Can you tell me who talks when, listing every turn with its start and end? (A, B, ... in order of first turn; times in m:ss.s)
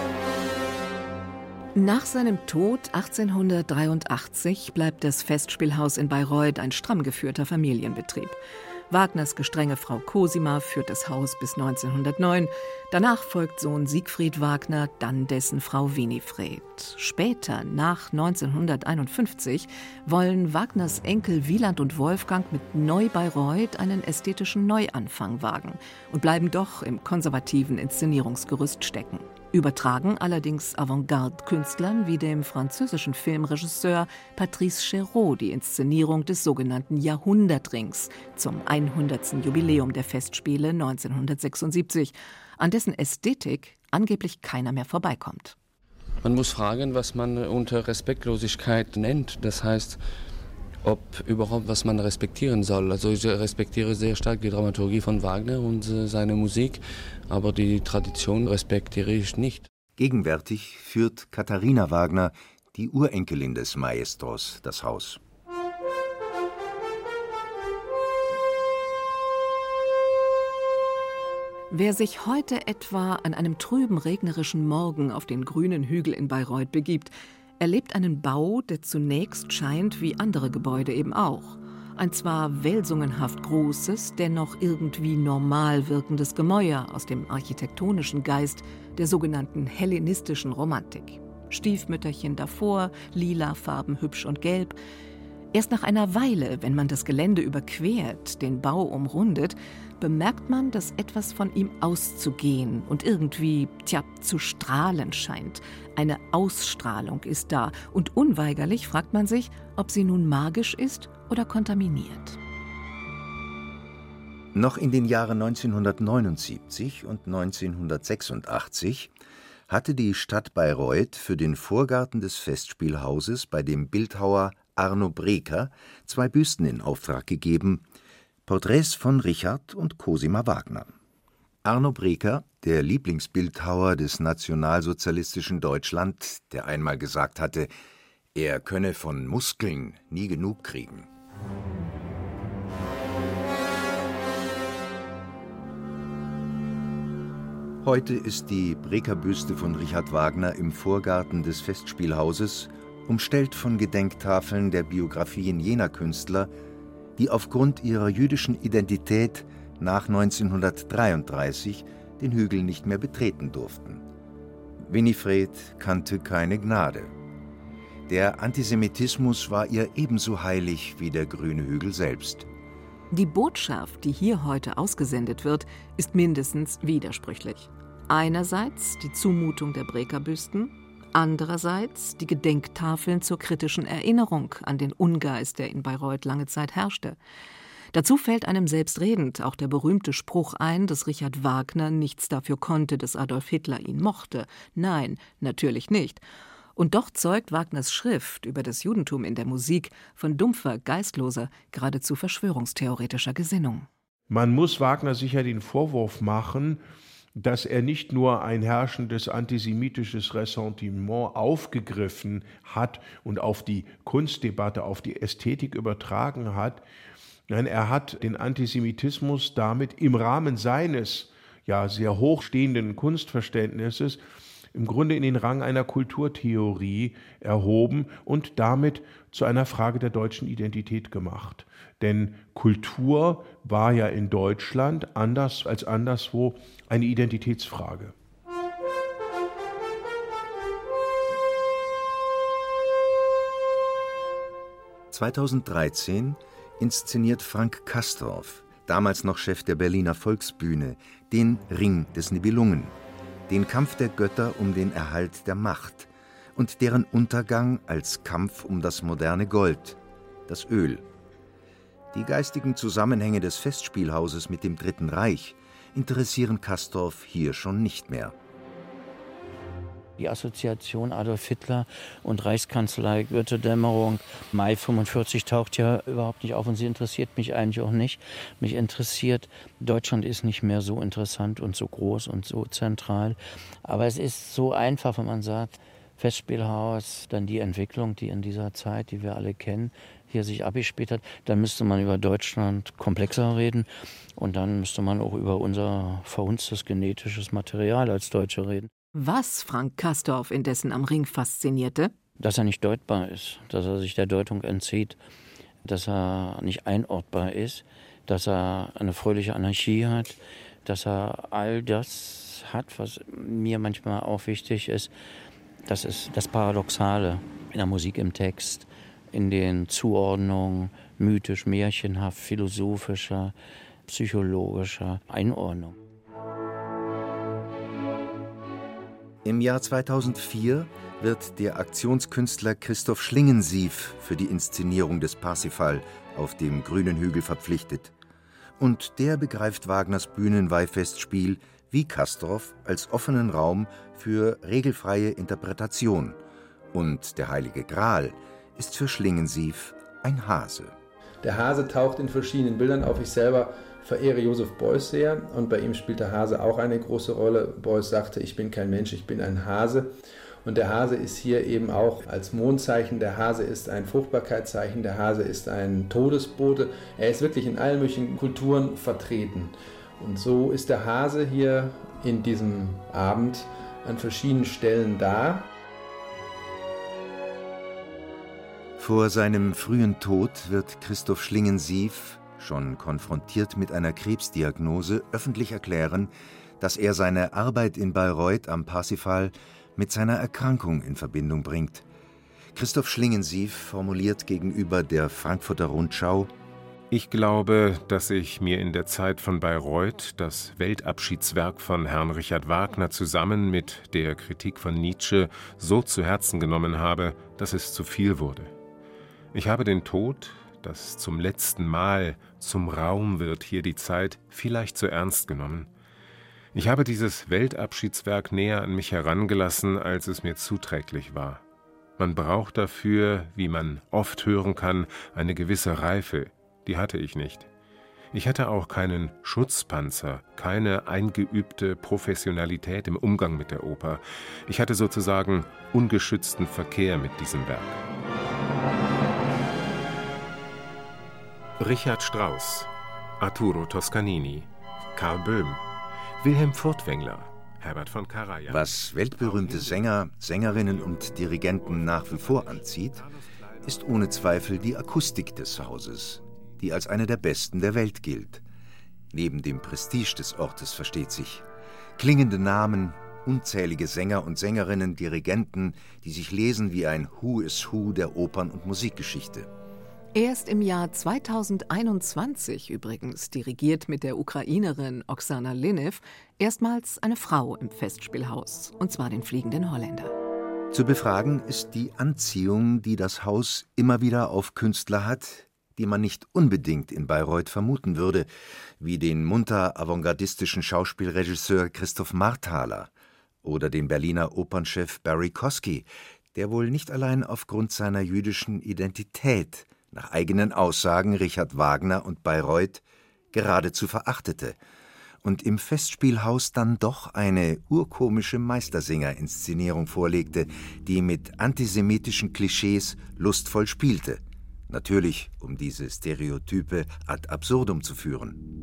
0:01.8-0:45.6 A
0:46.2-0:50.0 B
0:50.8-0:59.7 B
1:00.0-1:05.2 C
1:11.7-1:34.8 A
1:35.5-1:52.4 A
1:54.5-1:59.1 C
1:59.7-2:07.8 C
2:08.5-2:10.9 C
2:11.6-2:17.7 C
2:18.4-2:21.1 C
2:27.8-2:36.5 C
2:37.2-2:44.0 C
2:44.8-2:47.1 C
2:48.1-2:52.5 C
2:53.1-3:07.2 A
3:07.9-3:16.2 A
3:16.8-3:23.9 A
3:24.3-3:26.8 D
3:27.4-3:36.8 D
3:37.5-3:44.2 D
3:44.7-3:58.1 D
4:05.1-4:13.0 C
4:13.5-4:21.0 C
4:22.1-4:28.4 C
4:30.2-4:58.9 E
4:59.2-5:02.1 A
5:02.4-5:05.2 E
5:05.8-5:15.1 E
5:15.9-5:23.6 E
5:24.1-5:26.0 E
5:29.4-5:38.1 C
5:38.8-5:46.4 C
5:46.9-5:50.9 C
5:51.4-6:00.1 F
6:00.6-6:15.7 F
6:19.0-6:32.0 C
6:32.7-6:36.5 C
6:37.1-6:48.7 G
6:49.5-6:55.9 G
6:56.7-7:01.6 G
7:02.2-7:07.7 G
7:08.3-7:18.0 G
7:21.8-7:25.8 G
7:26.4-7:30.0 G
7:28.7-7:33.2 C
7:31.2-7:33.8 G
7:33.8-7:38.6 C
7:39.3-7:41.6 C
7:42.2-7:49.7 C
7:50.4-8:00.3 A
8:00.9-8:08.5 C
8:09.0-8:13.1 C
8:13.6-8:24.8 C
8:25.4-8:38.6 C